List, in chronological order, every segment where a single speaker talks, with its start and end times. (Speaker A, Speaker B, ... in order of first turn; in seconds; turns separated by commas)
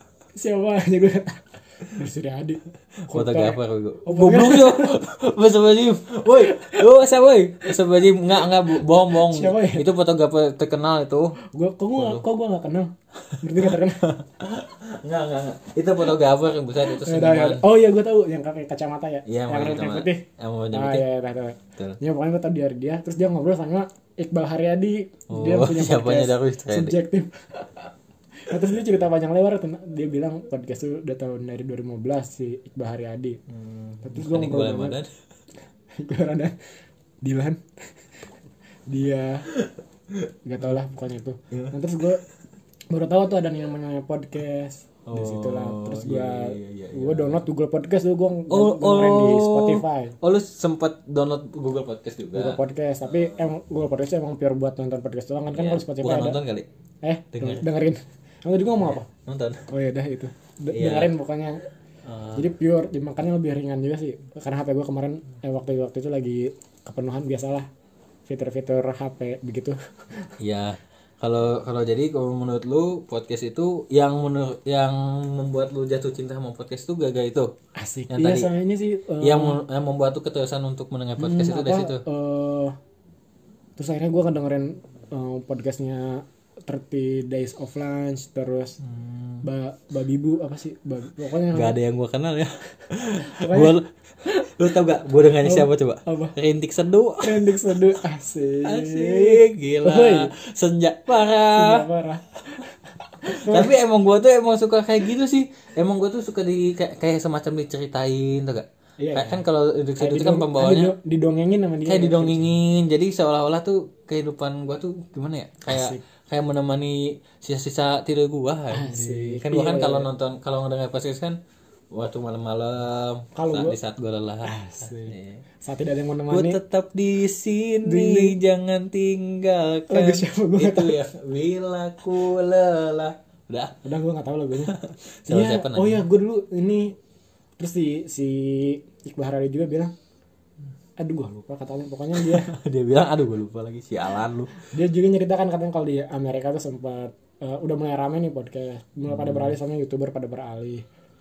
Speaker A: 0.3-5.0, Speaker B: 3.1-11.4, Speaker A: 6.4-6.8, Speaker A: 8.4-9.9, Speaker A: 11.5-14.1, Speaker B: 12.0-12.2, Speaker B: 13.3-17.6, Speaker A: 16.9-27.8, Speaker B: 19.3-21.1, Speaker B: 25.3-27.0, Speaker A: 28.4-33.4, Speaker B: 33.5-35.1, Speaker A: 34.0-35.0, Speaker A: 36.0-36.6, Speaker A: 37.2-38.0, Speaker A: 38.9-39.5, Speaker B: 40.2-40.7, Speaker A: 40.5-42.2, Speaker A: 42.9-50.2, Speaker B: 45.1-47.4, Speaker B: 48.5-52.6, Speaker A: 52.4-56.4, Speaker B: 55.5-56.7, Speaker A: 57.0-59.1, Speaker B: 57.3-57.7, Speaker B: 58.8-59.7, Speaker A: 59.7-61.7, Speaker B: 60.7-61.1, Speaker B: 62.0-62.5, Speaker A: 62.4-67.7, Speaker A: 68.3-70.3, Speaker B: 70.4-77.5, Speaker A: 77.8-79.6, Speaker B: 78.1-78.5, Speaker B: 79.2-82.0, Speaker A: 81.2-82.8, Speaker A: 83.8-88.8, Speaker B: 88.8-89.5, Speaker A: 89.4-91.8, Speaker B: 91.5-97.8, Speaker A: 93.0-94.5, Speaker A: 95.4-96.4, Speaker A: 97.2-100.3, Speaker B: 98.6-101.9, Speaker A: 101.5-103.8, Speaker B: 103.2-110.9, Speaker A: 109.0-109.4, Speaker A: 110.0-112.5, Speaker B: 111.9-121.4, Speaker A: 115.7-116.0, Speaker A: 118.7-120.1, Speaker B: 121.9-125.4, Speaker A: 123.3-123.8, Speaker A: 124.5-126.6, Speaker B: 126.3-133.8, Speaker A: 127.8-128.4, Speaker A: 129.9-131.0, Speaker A: 133.8-137.0, Speaker B: 134.6-136.1, Speaker A: 137.6-139.9, Speaker A: 141.0-142.6, Speaker B: 142.2-144.6, Speaker A: 144.6-150.8, Speaker B: 149.1-149.6